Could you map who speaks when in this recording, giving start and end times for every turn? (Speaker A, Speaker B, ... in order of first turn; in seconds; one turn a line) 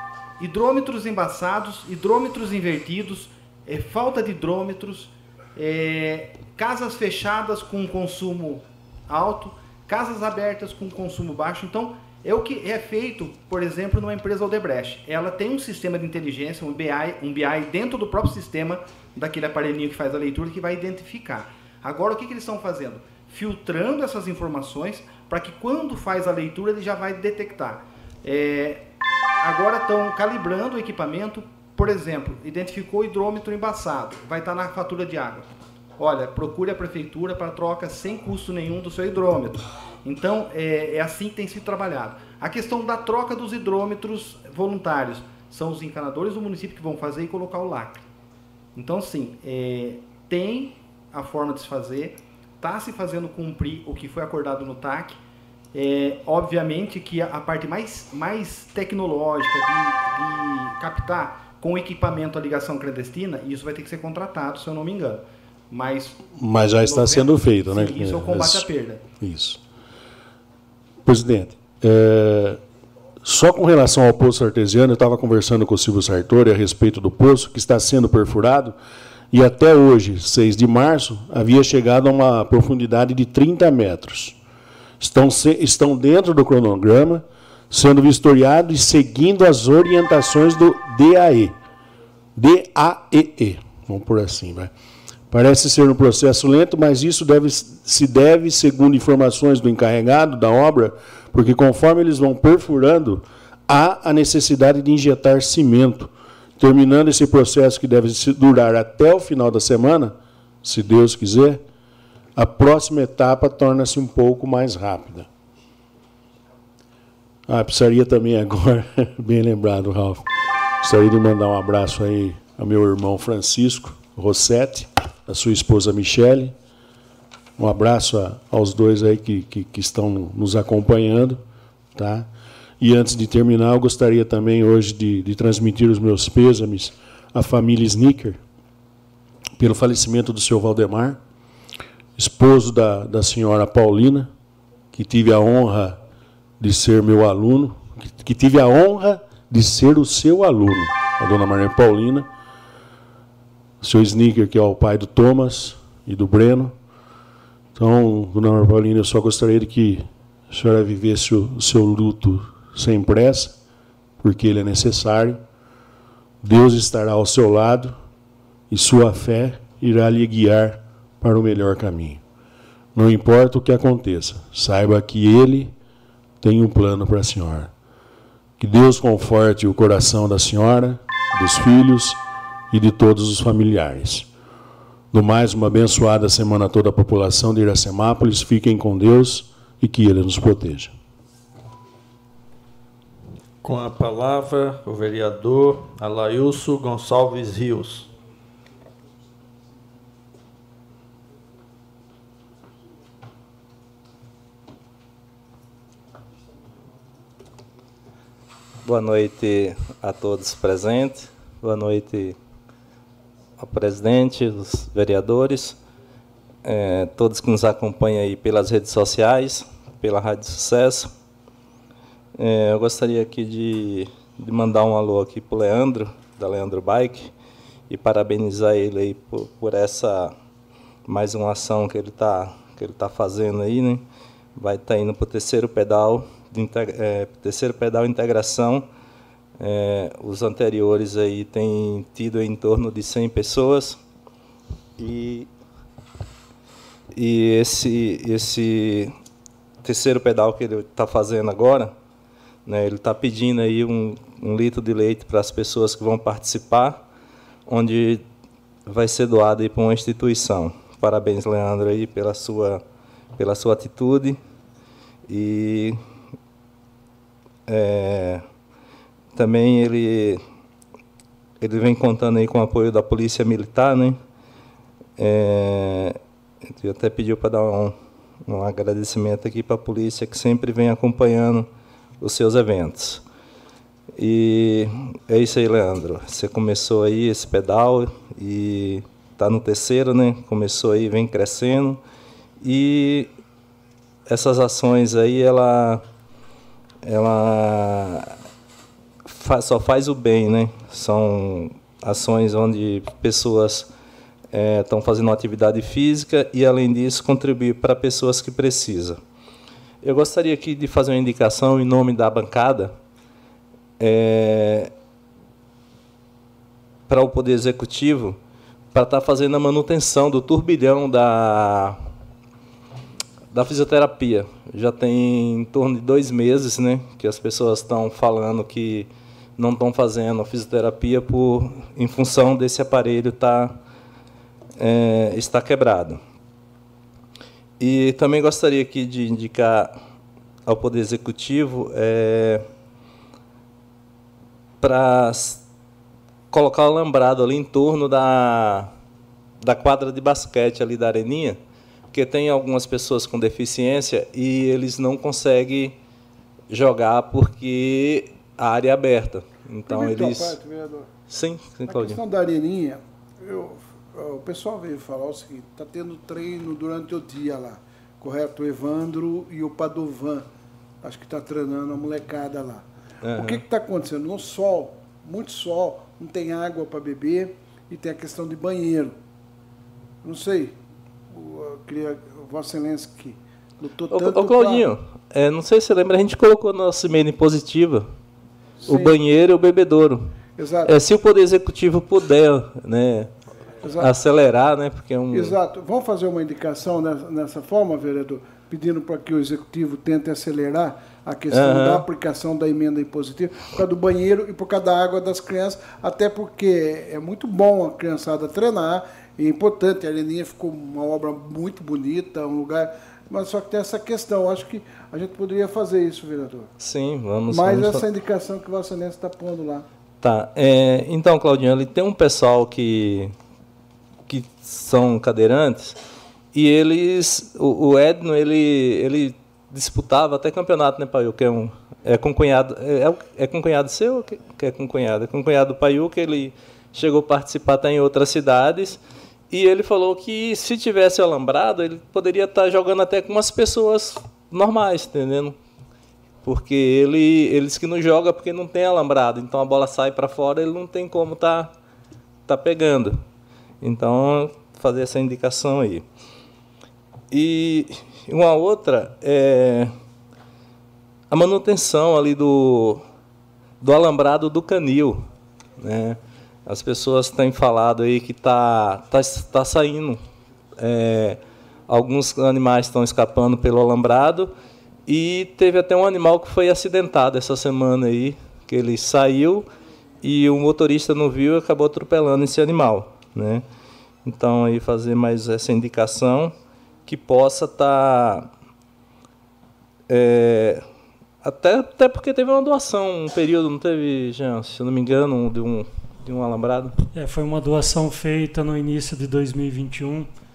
Speaker A: 0.4-28.8
Speaker A: 29.4-48.0
Speaker A: 48.7-55.2
Speaker A: 55.7-66.3
Speaker B: 66.4-68.7
Speaker A: 66.8-69.0
Speaker B: 69.2-69.6
Speaker B: 71.0-72.6
Speaker B: 73.2-78.8
Speaker B: 79.3-84.3
Speaker B: 85.0-91.5
Speaker B: 92.3-94.7
Speaker B: 95.3-111.6
Speaker B: 112.3-115.3
Speaker B: 117.5-120.3
Speaker B: 120.8-126.5
Speaker B: 127.6-131.4
Speaker B: 131.9-132.3
Speaker B: 132.8-138.4
Speaker B: 139.6-141.2
Speaker B: 142.2-144.3
Speaker B: 144.9-146.0
Speaker B: 146.6-152.3
Speaker B: 153.8-156.7
Speaker B: 157.8-163.6
Speaker B: 164.2-165.4
Speaker B: 166.4-167.9
Speaker B: 168.7-172.2
Speaker B: 172.9-175.7
Speaker B: 176.4-177.7
Speaker B: 178.6-182.2
Speaker B: 182.7-184.3
Speaker B: 185.1-190.9
Speaker C: 193.6-198.1
Speaker D: 208.8-212.3
Speaker D: 213.6-215.8
Speaker D: 216.6-221.1
Speaker D: 222.3-227.3
Speaker D: 227.9-230.3
Speaker D: 231.1-234.0
Speaker D: 234.6-238.8
Speaker D: 239.6-244.0
Speaker D: 245.0-245.5
Speaker D: 247.1-249.1
Speaker D: 249.8-251.9
Speaker D: 252.7-257.0
Speaker D: 257.7-258.2
Speaker D: 258.9-262.8
Speaker D: 263.4-264.4
Speaker D: 265.3-266.0
Speaker D: 267.7-268.4
Speaker D: 269.3-270.4
Speaker D: 271.6-274.2
Speaker D: 275.2-277.9
Speaker D: 278.4-281.7
Speaker D: 282.2-283.2
Speaker D: 284.1-292.0
Speaker D: 292.6-293.3
Speaker D: 294.3-296.0
Speaker D: 297.0-298.3
Speaker D: 299.2-303.9
Speaker D: 304.5-309.2
Speaker D: 310.0-312.9
Speaker D: 314.0-314.9
Speaker D: 317.1-318.4
Speaker D: 318.9-322.0
Speaker D: 323.5-333.8
Speaker D: 334.8-336.2
Speaker D: 337.8-339.9
Speaker D: 340.6-342.6
Speaker D: 344.8-345.6
Speaker D: 346.5-348.9
Speaker D: 349.6-351.6
Speaker D: 352.1-355.9
Speaker D: 356.7-360.5
Speaker E: 359.9-361.1
Speaker D: 361.3-362.2
Speaker E: 361.9-370.4
Speaker E: 371.0-379.1
Speaker D: 373.2-373.6
Speaker E: 380.2-380.8
Speaker E: 381.3-384.9
Speaker D: 384.1-388.1
Speaker E: 388.8-389.2
Speaker D: 388.9-390.3
Speaker E: 390.6-390.9
Speaker D: 390.9-393.3
Speaker E: 393.8-394.1
Speaker D: 394.0-395.6
Speaker E: 395.3-416.7
Speaker D: 401.5-402.0
Speaker D: 416.8-418.0
Speaker E: 417.5-419.9
Speaker D: 420.2-423.3
Speaker D: 424.3-426.0
Speaker D: 426.5-445.5
Speaker D: 446.4-451.7
Speaker D: 452.5-453.2
Speaker D: 453.8-456.0
Speaker D: 457.3-459.9
Speaker D: 461.3-463.0
Speaker D: 463.8-470.2
Speaker D: 470.8-474.5
Speaker D: 475.1-479.7
Speaker D: 480.2-483.6
Speaker D: 484.2-486.5
Speaker D: 487.1-488.5
Speaker D: 490.1-490.8
Speaker D: 491.4-496.9
Speaker F: 497.1-500.3